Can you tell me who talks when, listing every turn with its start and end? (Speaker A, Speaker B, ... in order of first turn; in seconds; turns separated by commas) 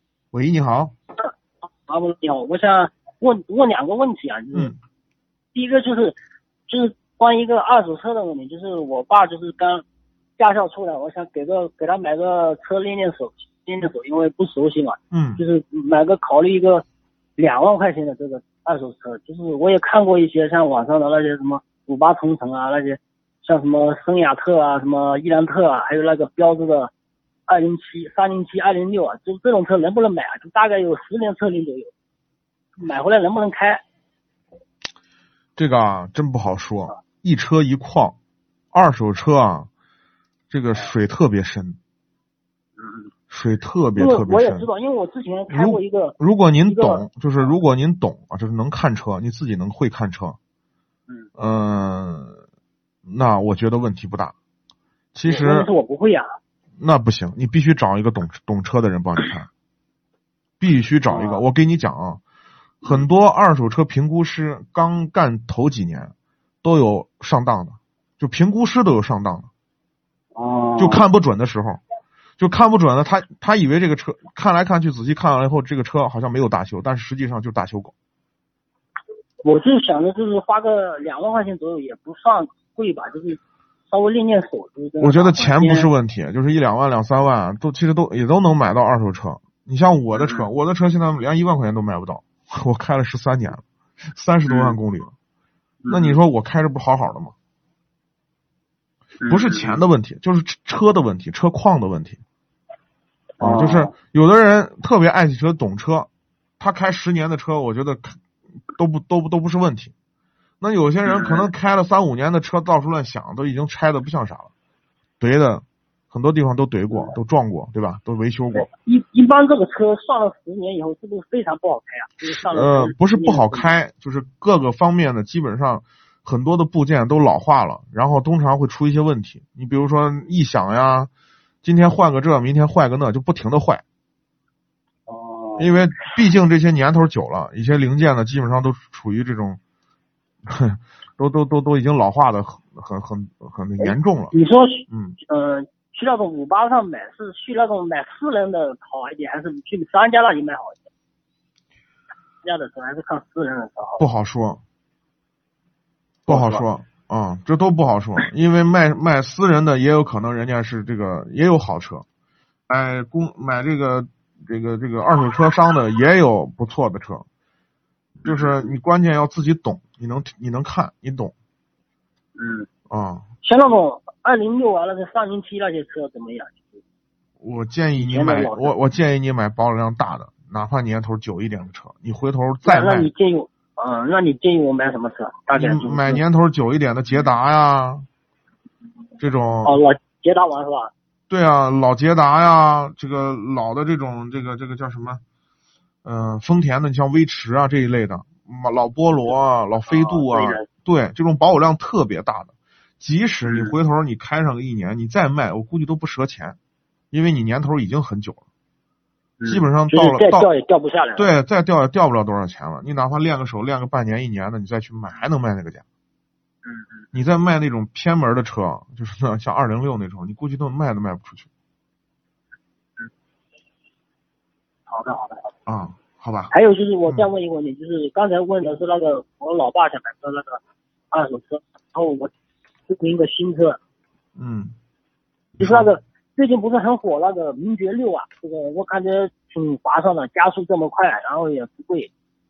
Speaker A: 0.3-0.9, Speaker B: 1.8-4.7, Speaker A: 4.5-4.8, Speaker B: 5.5-6.2, Speaker B: 6.7-9.8, Speaker B: 10.4-16.8, Speaker A: 15.1-15.4, Speaker B: 17.4-26.9, Speaker B: 27.5-31.9, Speaker B: 32.8-33.8, Speaker A: 35.5-38.1, Speaker A: 38.7-39.7, Speaker A: 40.5-41.8, Speaker B: 42.8-43.1, Speaker A: 43.3-44.7, Speaker B: 43.9-47.0, Speaker A: 45.5-50.4, Speaker A: 51.4-52.4, Speaker A: 53.0-54.3, Speaker A: 55.1-55.7, Speaker B: 55.2-56.3, Speaker A: 56.8-59.5, Speaker A: 60.6-62.2, Speaker B: 61.1-61.4, Speaker A: 62.8-69.5, Speaker B: 70.3-71.0, Speaker A: 70.8-71.8, Speaker A: 72.4-77.9, Speaker B: 79.4-85.9, Speaker A: 85.0-95.1, Speaker B: 90.1-90.5, Speaker B: 94.5-94.8, Speaker B: 95.8-96.2, Speaker A: 95.9-97.3, Speaker B: 99.2-99.8, Speaker A: 99.3-102.2, Speaker B: 103.4-103.9, Speaker A: 103.4-109.9, Speaker A: 110.6-114.5, Speaker B: 111.0-111.5, Speaker A: 115.2-118.7, Speaker B: 116.9-117.2, Speaker B: 118.5-123.7, Speaker A: 122.3-131.1, Speaker A: 131.6-133.8, Speaker B: 135.1-135.8, Speaker A: 135.6-139.6, Speaker A: 140.5-144.3, Speaker B: 143.8-150.9, Speaker A: 144.9-145.2, Speaker B: 152.4-154.0, Speaker A: 154.0-154.6, Speaker A: 156.3-162.0, Speaker B: 156.3-156.7, Speaker A: 162.7-167.2, Speaker A: 168.2-171.3, Speaker B: 168.2-168.8, Speaker B: 172.3-172.7, Speaker A: 172.9-173.2, Speaker B: 173.4-176.8, Speaker A: 177.4-183.1, Speaker B: 177.9-178.8, Speaker B: 182.6-186.2, Speaker A: 185.5-188.1, Speaker A: 189.2-189.8, Speaker B: 189.6-190.9, Speaker A: 191.3-195.2, Speaker A: 196.0-206.6, Speaker B: 199.8-200.7, Speaker B: 203.4-203.8, Speaker A: 207.1-208.4, Speaker B: 209.4-211.3, Speaker A: 209.4-210.5, Speaker A: 211.2-215.8, Speaker B: 216.6-217.0, Speaker A: 217.1-221.5, Speaker B: 224.9-225.5, Speaker A: 225.7-226.5, Speaker B: 226.5-230.6, Speaker B: 231.1-232.3, Speaker B: 232.9-233.8, Speaker A: 234.4-234.8, Speaker A: 235.6-235.9, Speaker B: 235.6-242.1